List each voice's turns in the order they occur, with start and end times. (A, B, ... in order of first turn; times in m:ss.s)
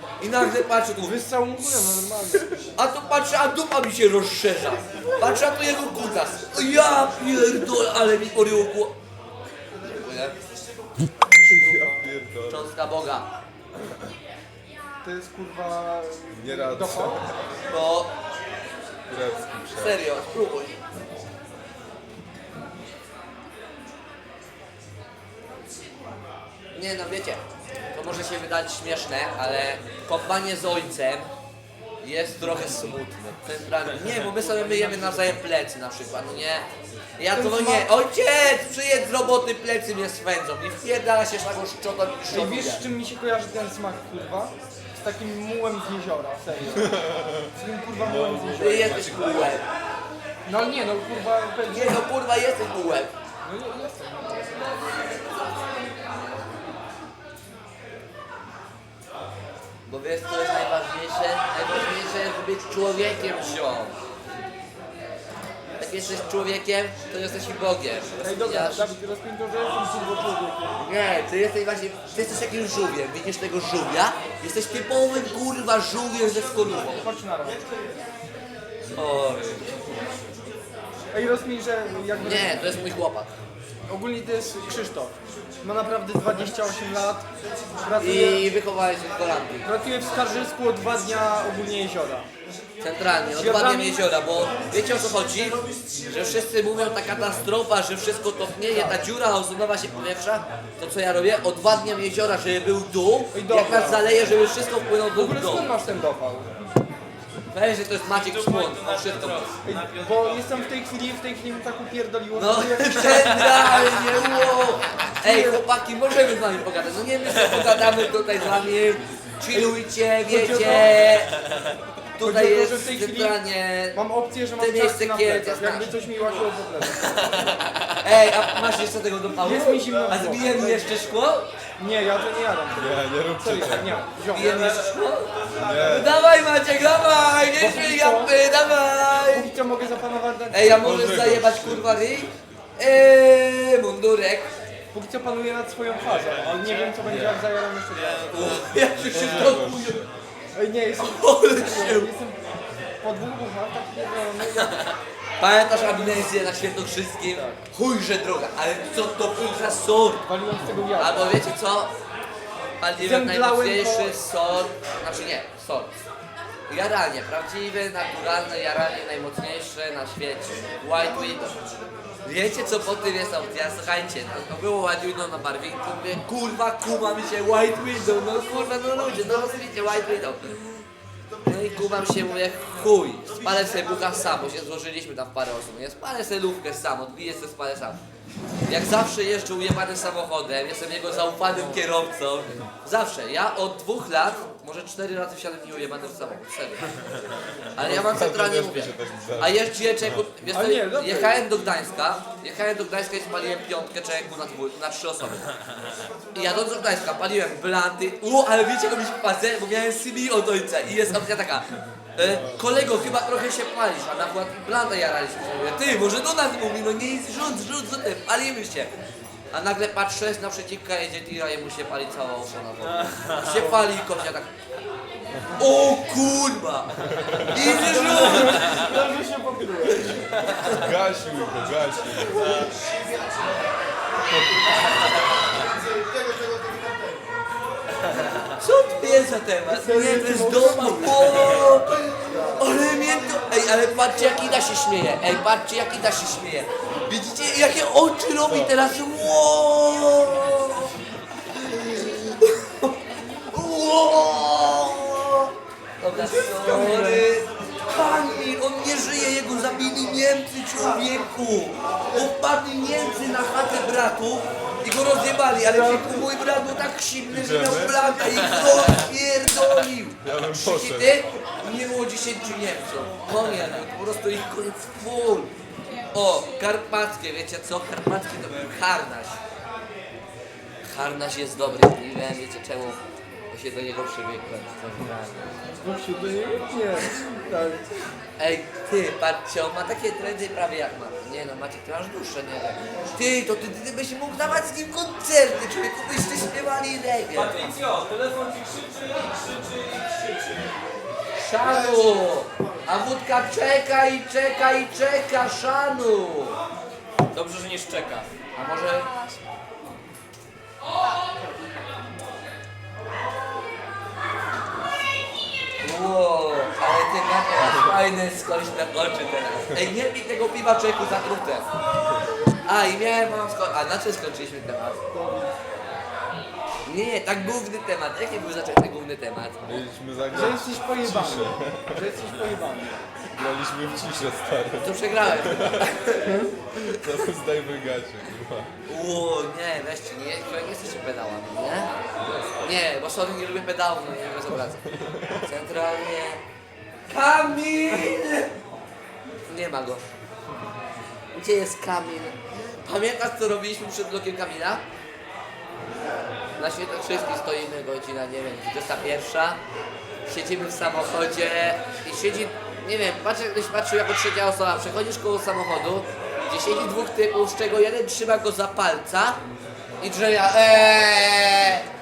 0:00.2-0:01.2 A
0:01.0-0:02.7 B
0:02.7-0:08.9 A
0:09.8-0:10.4 A
0:11.4-0:12.0 B
0:11.4-0:12.7 C
0:12.5-0:13.3 A
0:15.0-0:17.2 B
0:16.3-0:17.5 C
0:17.7-0:18.1 A
0:19.1-0:20.0 C
0:19.7-0:20.8 A
0:26.7-0:27.4 A
0:27.9-0:31.3 A
0:32.0-0:36.7 A
0:34.4-0:35.3 B
0:37.2-0:42.8 A
0:37.3-0:37.9 B
0:42.3-0:47.0 B
0:46.7-0:49.6 C
0:47.6-0:49.1 B
0:48.6-0:49.6 A
0:50.4-0:52.0 B
0:51.7-0:53.1 A
0:53.4-0:54.6 B
0:59.9-1:04.0 A
1:05.8-1:08.9 A
1:08.2-1:10.8 B
1:10.8-1:17.0 A
1:16.9-1:17.7 B
1:18.9-1:19.8 A
1:21.1-1:22.6 B
1:22.2-1:23.3 A
1:23.9-1:27.3 B
1:27.8-1:28.4 B
1:28.0-1:29.7 A
1:29.6-1:32.3 B
1:32.8-1:45.7 A
1:33.3-1:34.0 B
1:38.7-1:39.0 B
1:43.3-1:44.2 B
1:45.1-1:46.5 B
1:47.5-1:49.5 A
1:48.1-1:50.7 D
1:49.6-1:53.2 B
1:52.4-2:01.4 A
1:53.4-1:54.0 D
1:55.2-1:55.6 B
2:00.3-2:01.0 B
2:02.2-2:04.0 A
2:02.2-2:03.4 B
2:03.9-2:07.1 B
2:04.6-2:05.9 A
2:06.9-2:11.5 A
2:09.4-2:11.2 B
2:11.8-2:14.7 B
2:12.7-2:14.0 C
2:14.3-2:19.5 A
2:14.7-2:14.9 D
2:15.5-2:15.9 D
2:15.5-2:16.2 C
2:17.5-2:18.4 B
2:19.2-2:20.8 B
2:20.5-2:24.5 A
2:20.7-2:22.4 C
2:24.9-2:28.6 B
2:27.0-2:27.4 C
2:27.9-2:28.7 D
2:28.3-2:30.0 A
2:29.0-2:30.1 C
2:30.5-2:32.4 B
2:31.0-2:32.1 A
2:33.0-2:34.7 B
2:35.4-2:40.2 A
2:35.9-2:36.4 B
2:37.3-2:37.6 B
2:40.2-2:41.4 B
2:41.0-2:41.9 A
2:42.8-2:45.9 A
2:43.0-2:44.2 B
2:46.7-2:51.6 A
2:52.2-3:00.6 A
3:01.4-3:08.0 A
3:08.7-3:16.8 A
3:17.7-3:25.5 A
3:17.8-3:20.3 C
3:20.5-3:21.5 B
3:26.3-3:38.9 A
3:32.2-3:33.0 C
3:39.5-3:44.5 A
3:43.1-3:43.5 D
3:45.5-3:48.8 A
3:47.1-3:47.7 C
3:47.6-3:50.4 B
3:48.3-3:48.8 D
3:50.5-3:50.8 D
3:50.7-3:52.7 C
3:54.5-3:54.8 C
3:58.6-4:10.9 A
3:59.7-4:01.4 B
4:02.3-4:02.7 B
4:11.4-4:35.5 A
4:16.2-4:17.2 B
4:25.6-4:26.2 B
4:27.3-4:28.0 C
4:30.2-4:31.2 C
4:36.1-4:39.4 A
4:40.8-4:45.5 A
4:45.8-4:47.9 B
4:48.4-4:57.5 A
4:57.3-5:00.8 D
5:01.4-5:06.6 A
5:07.3-5:08.3 D
5:08.5-5:09.1 A
5:15.8-5:21.7 A
5:22.6-5:25.0 A
5:25.1-5:25.5 B
5:26.8-5:29.7 A
5:29.6-5:32.3 C
5:30.3-5:33.0 B
5:33.3-5:35.9 C
5:34.8-5:37.0 A
5:36.9-5:38.7 C
5:38.9-5:41.9 A
5:42.2-5:42.5 C
5:42.6-5:44.8 A
5:44.8-5:45.5 C
5:45.4-5:46.4 A
5:47.1-5:48.5 A
5:49.5-5:50.0 A
5:51.3-5:54.8 A
5:56.6-5:59.6 A
6:00.3-6:09.4 A
6:10.0-6:11.8 A